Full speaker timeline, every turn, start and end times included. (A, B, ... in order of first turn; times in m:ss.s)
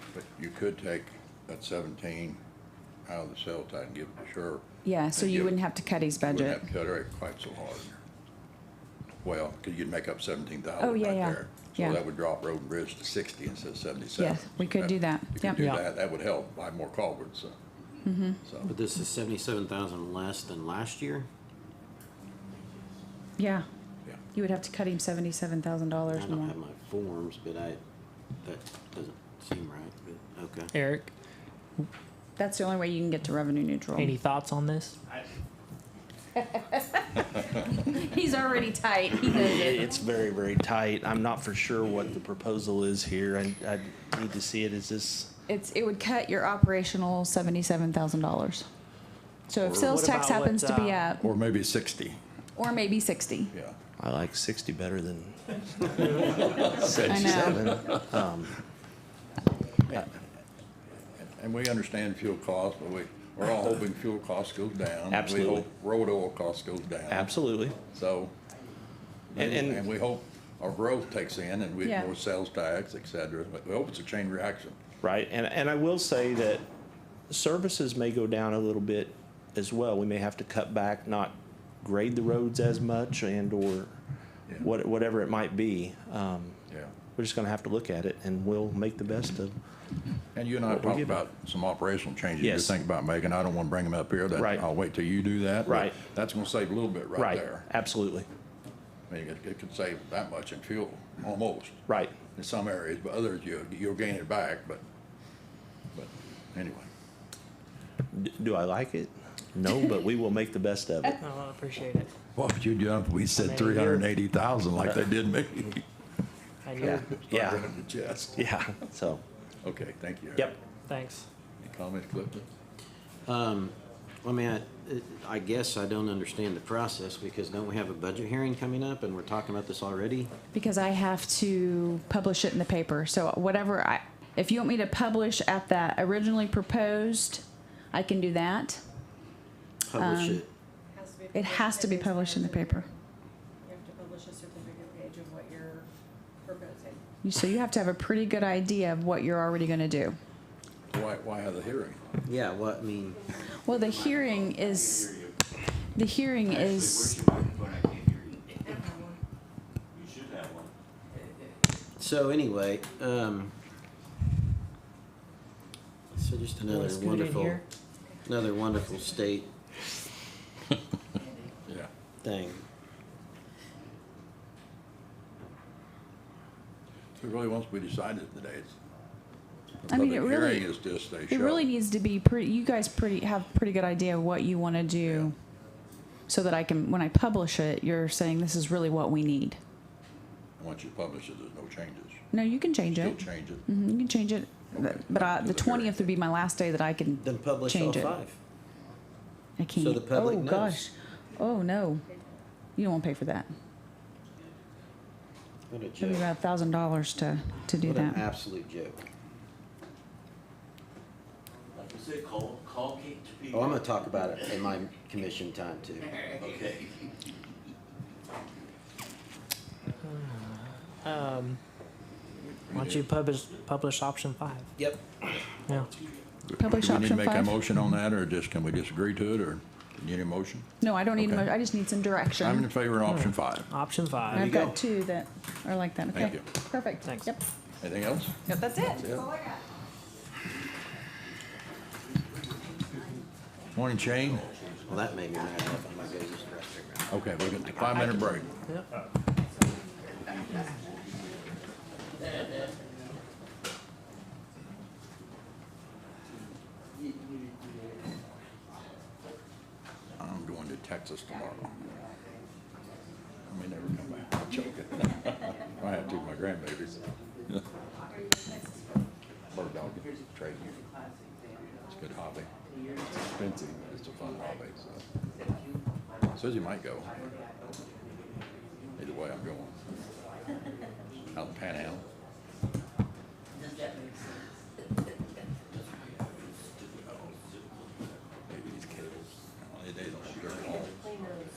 0:00.1-0:02.4 A
0:03.0-0:04.6 A
0:04.8-0:06.6 B
0:05.2-0:05.6 A
0:06.2-0:08.0 A
0:09.2-0:17.6 A
0:10.8-0:12.0 B
0:14.2-0:15.6 B
0:15.6-0:15.8 C
0:18.0-0:18.4 B
0:18.6-0:21.3 D
0:23.4-0:23.6 B
0:24.3-0:26.6 B
0:26.1-0:27.8 D
0:28.4-0:30.7 D
0:30.7-0:31.1 C
0:32.4-0:34.2 B
0:34.0-0:35.0 C
0:36.4-0:39.9 B
0:39.3-0:45.3 E
0:45.5-0:48.7 B
0:49.5-0:51.2 B
0:49.6-0:50.0 A
0:49.8-0:51.2 C
0:51.2-0:52.2 A
0:52.6-0:53.5 B
0:54.0-0:56.2 E
0:56.1-0:58.0 A
0:57.1-0:57.7 B
0:57.1-0:58.5 E
1:01.2-1:08.3 A
1:05.1-1:05.7 E
1:07.1-1:07.8 E
1:09.3-1:14.8 A
1:09.4-1:09.8 E
1:11.8-1:12.1 B
1:15.0-1:16.6 E
1:17.3-1:24.0 E
1:24.6-1:26.6 E
1:27.2-1:29.6 E
1:30.3-1:37.6 A
1:30.7-1:31.2 E
1:32.4-1:32.8 E
1:34.3-1:34.7 E
1:35.7-1:36.0 E
1:37.2-1:38.3 E
1:39.1-1:44.8 A
1:41.9-1:42.1 E
1:45.9-1:46.9 A
1:48.1-1:51.2 E
1:51.2-1:52.1 C
1:52.4-1:55.8 A
1:53.4-1:54.1 C
1:56.6-1:57.1 C
1:56.8-1:58.3 A
1:56.8-1:57.7 E
1:58.4-1:59.2 E
1:59.6-2:00.5 A
2:00.9-2:01.3 C
2:01.6-2:02.5 A
2:03.2-2:10.3 D
2:10.5-2:18.8 B
2:19.9-2:20.5 D
2:19.9-2:20.4 B
2:20.9-2:22.9 F
2:21.3-2:22.9 B
2:23.6-2:25.9 F
2:26.4-2:27.0 F
2:27.2-2:30.2 B
2:30.9-2:32.0 A
2:32.2-2:33.2 D
2:33.6-2:35.1 B
2:35.9-2:37.2 B
2:37.0-2:38.4 G
2:40.0-2:40.7 G
2:42.0-2:43.5 D
2:46.2-2:47.6 D
2:46.7-2:47.6 C
2:48.2-2:49.5 D
2:52.2-2:52.6 D
2:57.2-2:58.8 A
2:59.8-3:01.7 A
2:59.9-3:00.7 B
3:01.3-3:05.3 B
3:05.0-3:05.3 A
3:06.3-3:09.6 B
3:10.6-3:12.2 A
3:12.3-3:18.2 B
3:12.9-3:13.6 A
3:14.7-3:16.1 A
3:17.2-3:18.4 D
3:19.6-3:22.0 B
3:19.8-3:20.8 D
3:22.8-3:23.5 B
3:25.7-3:26.3 D
3:26.0-3:28.2 B
3:27.8-3:29.0 D
3:31.8-3:33.8 G
3:33.5-3:36.1 D
3:36.4-3:36.9 G
3:40.0-3:41.6 C
3:42.7-3:43.0 A
3:42.7-3:44.7 C
3:44.8-3:45.2 D
3:46.5-3:51.5 A
3:46.6-3:47.6 B
3:50.8-3:52.7 B
3:52.4-3:53.7 A
3:53.1-3:54.5 C
3:54.3-3:54.8 D
3:54.3-3:57.4 B
3:56.1-3:56.4 A
3:57.0-3:57.3 C
3:57.8-3:58.4 A
3:58.5-3:59.1 B
3:59.0-3:59.3 A
4:03.7-4:04.5 A
4:04.8-4:07.1 D
4:07.1-4:08.5 A
4:07.7-4:08.2 D
4:20.2-4:21.8 A
4:23.5-4:27.6 A
4:28.1-4:29.0 F
4:29.5-4:30.8 A
4:31.8-4:32.5 A
4:33.0-4:35.0 A
4:36.3-4:37.1 A
4:39.0-4:39.8 A
4:41.3-4:42.1 A
4:48.5-4:51.2 A